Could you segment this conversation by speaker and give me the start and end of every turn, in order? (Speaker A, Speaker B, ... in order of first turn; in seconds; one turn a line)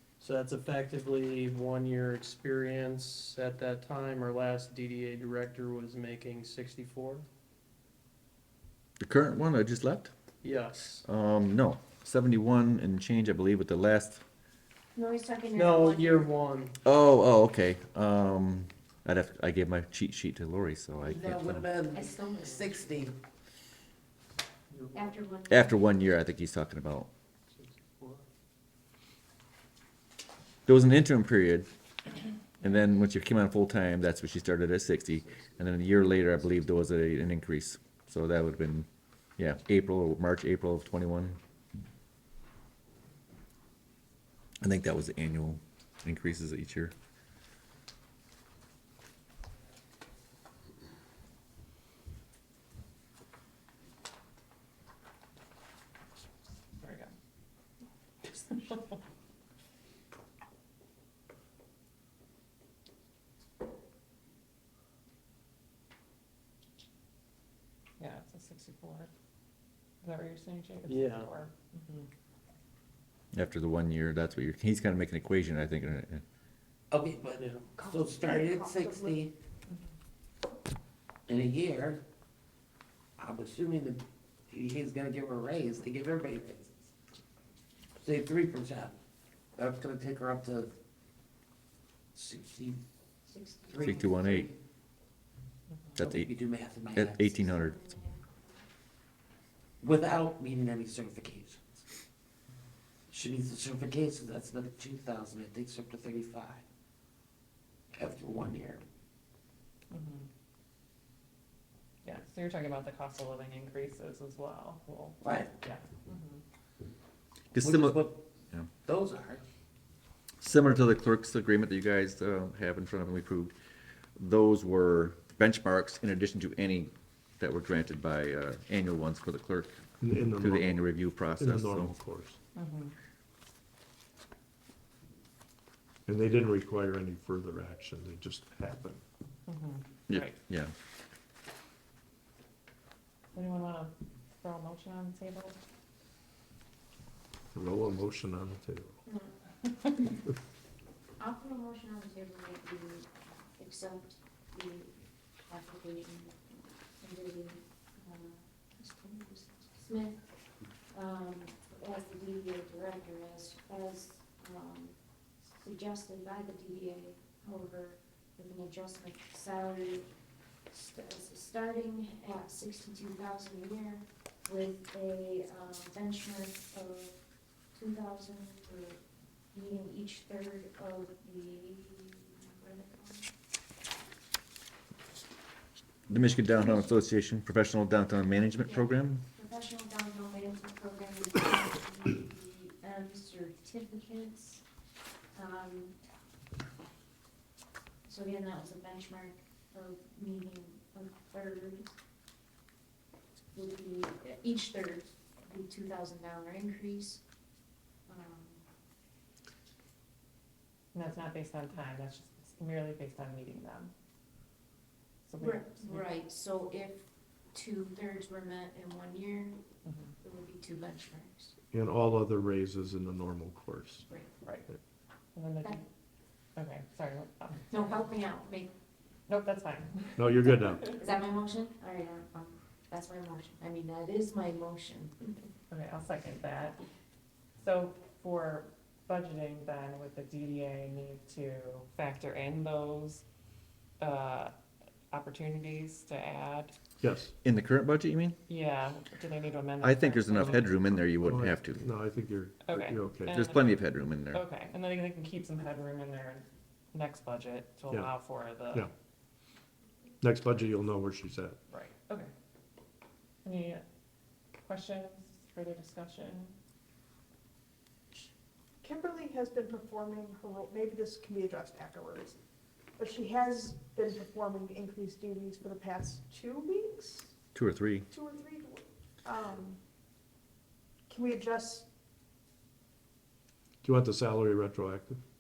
Speaker A: 0.2-7.3
Speaker B: 9.0-10.1
Speaker A: 10.4-11.0
Speaker B: 11.0-14.2
Speaker C: 14.9-16.4
Speaker A: 15.5-16.8
Speaker B: 16.8-21.7
Speaker D: 21.0-23.1
Speaker C: 21.9-23.0
Speaker A: 22.4-22.8
Speaker A: 24.7-25.1
Speaker C: 24.9-26.0
Speaker B: 25.5-27.1
Speaker A: 27.6-28.2
Speaker B: 30.6-31.7
Speaker B: 32.6-41.4
Speaker B: 44.6-46.9
Speaker E: 56.8-57.1
Speaker E: 58.2-59.0
Speaker E: 68.0-69.1
Speaker E: 70.0-72.1
Speaker A: 70.9-71.3
Speaker B: 73.3-76.2
Speaker D: 76.9-79.3
Speaker F: 77.7-79.3
Speaker D: 81.3-82.0
Speaker D: 83.2-86.7
Speaker D: 88.0-89.0
Speaker D: 89.6-90.7
Speaker D: 92.1-92.8
Speaker C: 93.3-94.3
Speaker D: 93.7-94.5
Speaker B: 93.8-94.5
Speaker B: 96.0-96.3
Speaker D: 96.0-97.5
Speaker B: 96.9-97.8
Speaker C: 97.5-98.6
Speaker D: 99.8-101.8
Speaker D: 103.1-106.6
Speaker D: 107.9-108.8
Speaker E: 109.9-110.3
Speaker E: 112.0-116.4
Speaker D: 115.2-115.5
Speaker B: 117.5-118.7
Speaker D: 117.6-118.2
Speaker D: 118.8-119.4
Speaker B: 120.4-123.5
Speaker B: 124.2-132.0
Speaker G: 130.0-130.8
Speaker G: 131.4-132.4
Speaker E: 132.6-132.9
Speaker G: 136.1-139.0
Speaker E: 139.5-140.4
Speaker B: 140.1-140.7
Speaker E: 143.3-145.6
Speaker G: 147.5-149.0
Speaker C: 149.1-149.3
Speaker C: 151.2-160.3
Speaker C: 160.9-165.0
Speaker C: 165.5-170.1
Speaker C: 170.7-177.2
Speaker C: 177.7-179.0
Speaker C: 179.5-183.3
Speaker B: 186.1-189.2
Speaker C: 186.6-186.9
Speaker C: 188.6-194.6
Speaker C: 195.3-196.0
Speaker C: 198.1-201.9
Speaker C: 203.5-207.2
Speaker C: 208.1-208.6
Speaker E: 210.9-213.9
Speaker E: 215.3-216.1
Speaker C: 215.4-219.6
Speaker E: 219.8-220.1
Speaker C: 220.2-221.5
Speaker G: 221.7-224.1
Speaker E: 225.3-225.9
Speaker E: 226.6-228.0
Speaker C: 227.7-228.7
Speaker E: 229.3-230.8
Speaker G: 230.2-231.0
Speaker C: 230.9-235.2
Speaker E: 235.7-236.8
Speaker E: 237.6-243.2
Speaker E: 244.0-244.5
Speaker E: 245.1-246.8
Speaker G: 247.0-247.3
Speaker B: 247.4-248.4
Speaker E: 248.5-250.7
Speaker B: 249.8-251.8
Speaker G: 251.2-253.5
Speaker E: 252.7-258.9
Speaker B: 253.3-254.4
Speaker G: 257.9-258.1
Speaker G: 260.2-261.6
Speaker E: 261.7-262.3
Speaker E: 263.4-263.8
Speaker E: 264.6-266.6
Speaker F: 268.8-272.4
Speaker F: 273.0-277.3
Speaker B: 277.6-278.1
Speaker F: 278.1-279.8
Speaker F: 281.1-281.9
Speaker G: 283.8-285.2